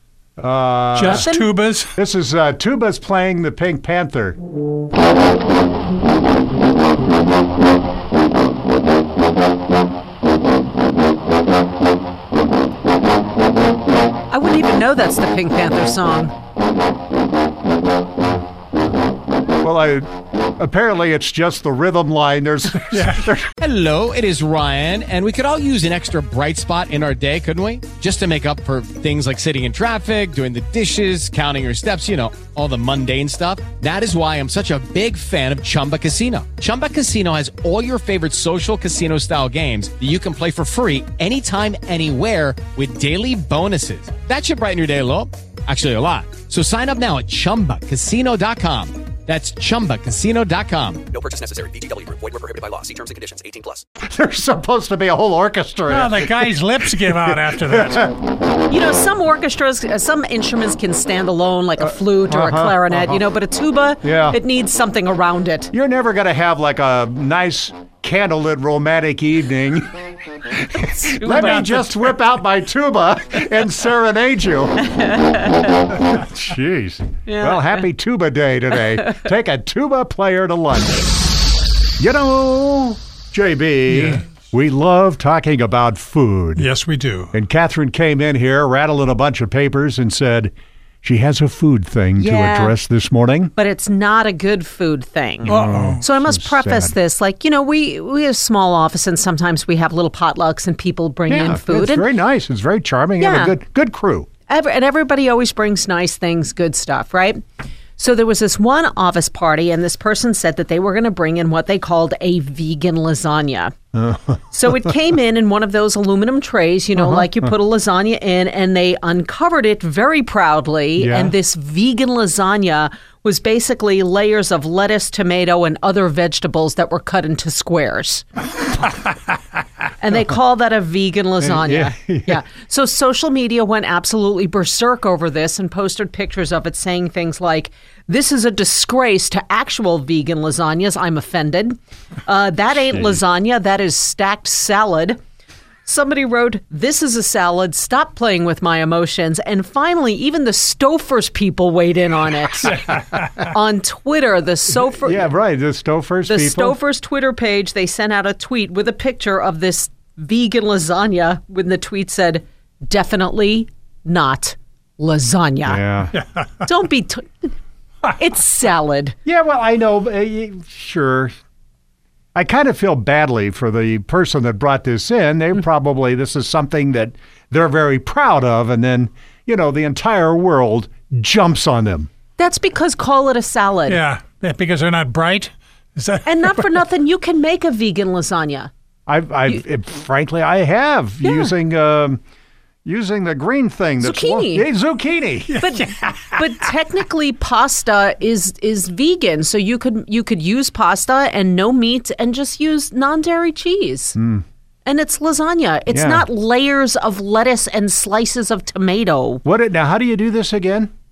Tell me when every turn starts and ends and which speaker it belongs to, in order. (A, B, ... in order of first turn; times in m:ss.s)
0:00.4-0:01.3 A
0:00.9-0:01.9 B
0:01.0-0:01.5 C
0:02.0-0:04.4 A
0:14.3-0:16.3 C
0:19.6-0:23.5 A
0:22.9-0:23.2 B
0:23.6-0:51.0 D
0:51.1-0:53.8 E
0:54.0-0:56.4 A
0:55.9-0:58.1 B
0:57.1-0:58.0 A
0:58.7-1:05.7 C
1:01.8-1:03.2 A
1:04.0-1:04.4 A
1:05.7-1:14.8 A
1:10.9-1:11.8 C
1:14.9-1:15.9 C
1:16.0-1:21.1 A
1:17.2-1:17.8 C
1:22.0-1:26.7 A
1:23.9-1:24.2 B
1:26.6-1:27.3 B
1:27.3-1:33.5 A
1:32.2-1:32.8 C
1:33.6-1:42.1 C
1:35.4-1:36.0 B
1:35.4-1:36.9 A
1:41.3-1:44.3 A
1:43.2-1:43.6 C
1:44.5-1:47.4 C
1:48.0-1:53.7 C
1:53.9-1:54.4 A
1:54.5-2:08.3 C
1:57.0-1:57.3 A
2:01.0-2:01.3 A
2:10.0-2:25.2 C
2:11.4-2:12.4 A
2:25.8-2:35.3 C
2:34.8-2:36.8 A
2:36.3-2:45.8 C
2:45.6-2:46.1 A
2:46.1-2:46.4 B
2:46.6-2:47.5 C
2:48.1-2:49.1 C
2:49.2-2:51.3 A
2:52.3-3:02.1 A
3:02.4-3:04.0 C
3:03.9-3:06.6 B
3:06.2-3:08.7 C
3:09.1-3:12.2 A
3:11.2-3:11.5 C
3:12.8-3:15.6 A
3:14.0-3:14.7 C
3:15.6-3:16.4 B
3:15.6-3:24.2 C
3:24.2-3:24.4 A
3:24.8-3:29.4 C
3:25.9-3:26.2 A
3:29.4-3:30.9 A